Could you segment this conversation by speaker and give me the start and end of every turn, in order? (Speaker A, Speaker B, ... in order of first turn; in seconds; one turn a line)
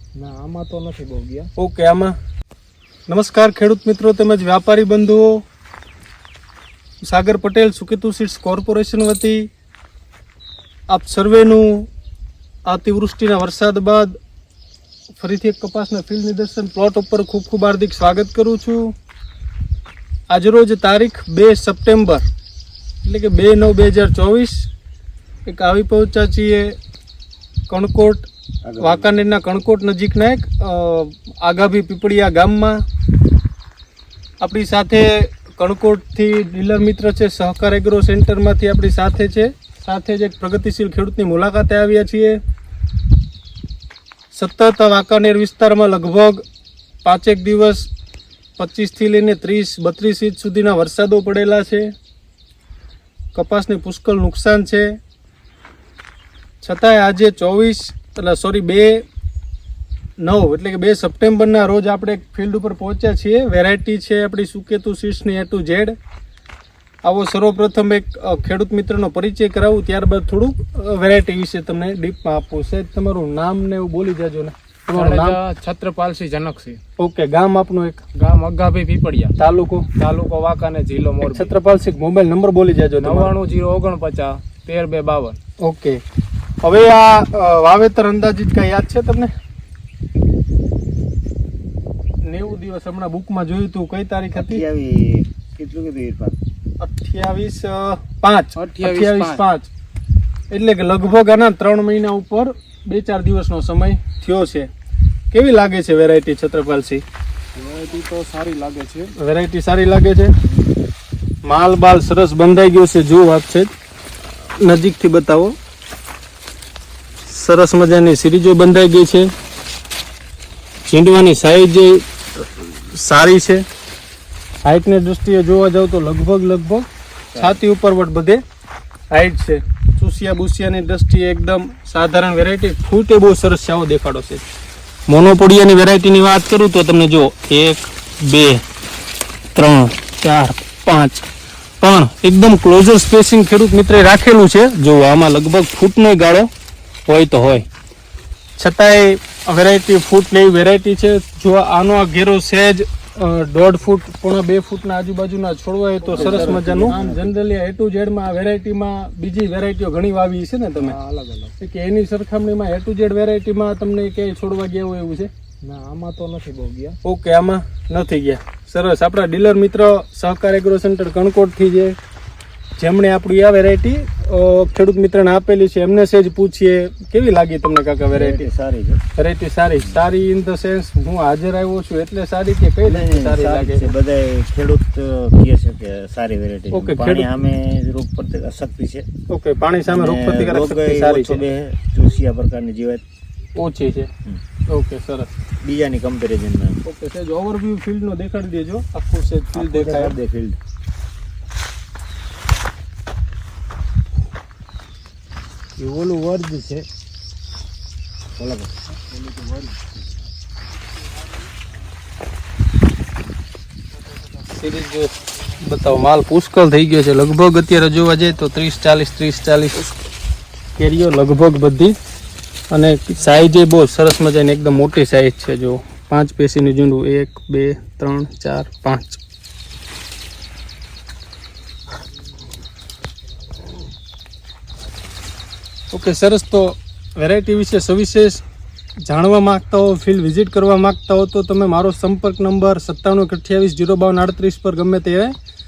Speaker A: 0.2-1.5
Speaker B: 1.6-2.1
Speaker B: 3.1-5.4
Speaker B: 7.0-9.5
Speaker B: 10.9-11.9
Speaker B: 12.7-14.2
Speaker B: 15.2-18.9
Speaker B: 20.3-22.2
Speaker B: 23.1-24.6
Speaker B: 25.5-26.7
Speaker B: 27.7-28.3
Speaker C: 28.6-29.1
Speaker B: 28.8-32.8
Speaker B: 34.4-42.4
Speaker B: 44.3-46.4
Speaker B: 47.0-47.9
Speaker B: 48.6-51.9
Speaker B: 53.3-54.9
Speaker B: 56.6-59.0
Speaker B: 60.2-65.9
Speaker B: 67.0-75.4
Speaker A: 74.9-76.8
Speaker B: 77.0-78.0
Speaker A: 78.2-79.3
Speaker B: 79.4-79.9
Speaker A: 80.0-81.5
Speaker B: 81.2-83.3
Speaker A: 83.0-85.4
Speaker B: 85.6-86.0
Speaker B: 86.6-89.3
Speaker B: 92.2-94.6
Speaker C: 94.3-96.4
Speaker B: 96.8-99.7
Speaker A: 98.6-99.4
Speaker B: 100.5-104.7
Speaker B: 105.3-107.0
Speaker A: 107.6-109.1
Speaker B: 109.2-110.3
Speaker B: 111.5-113.7
Speaker B: 114.6-115.5
Speaker B: 117.3-119.3
Speaker B: 120.9-123.6
Speaker B: 124.7-128.4
Speaker C: 127.3-127.6
Speaker B: 129.1-134.4
Speaker B: 135.1-138.6
Speaker B: 139.6-141.3
Speaker B: 141.8-146.5
Speaker B: 147.1-147.7
Speaker B: 148.6-161.0
Speaker A: 156.1-157.0
Speaker C: 156.1-157.2
Speaker A: 160.8-161.5
Speaker B: 161.6-165.3
Speaker A: 165.6-167.0
Speaker B: 167.0-172.0
Speaker B: 172.8-178.5
Speaker C: 178.1-179.0
Speaker B: 179.2-183.9
Speaker C: 182.8-189.1
Speaker B: 186.7-187.3
Speaker B: 189.3-191.4
Speaker C: 189.9-193.0
Speaker B: 193.6-194.1
Speaker B: 194.7-195.3
Speaker C: 195.6-196.8
Speaker B: 196.8-200.2
Speaker C: 199.6-200.6
Speaker C: 205.8-206.8
Speaker C: 208.4-208.7
Speaker B: 214.4-219.9
Speaker B: 220.8-221.9
Speaker B: 222.7-229.2
Speaker B: 235.9-238.4
Speaker B: 239.1-245.3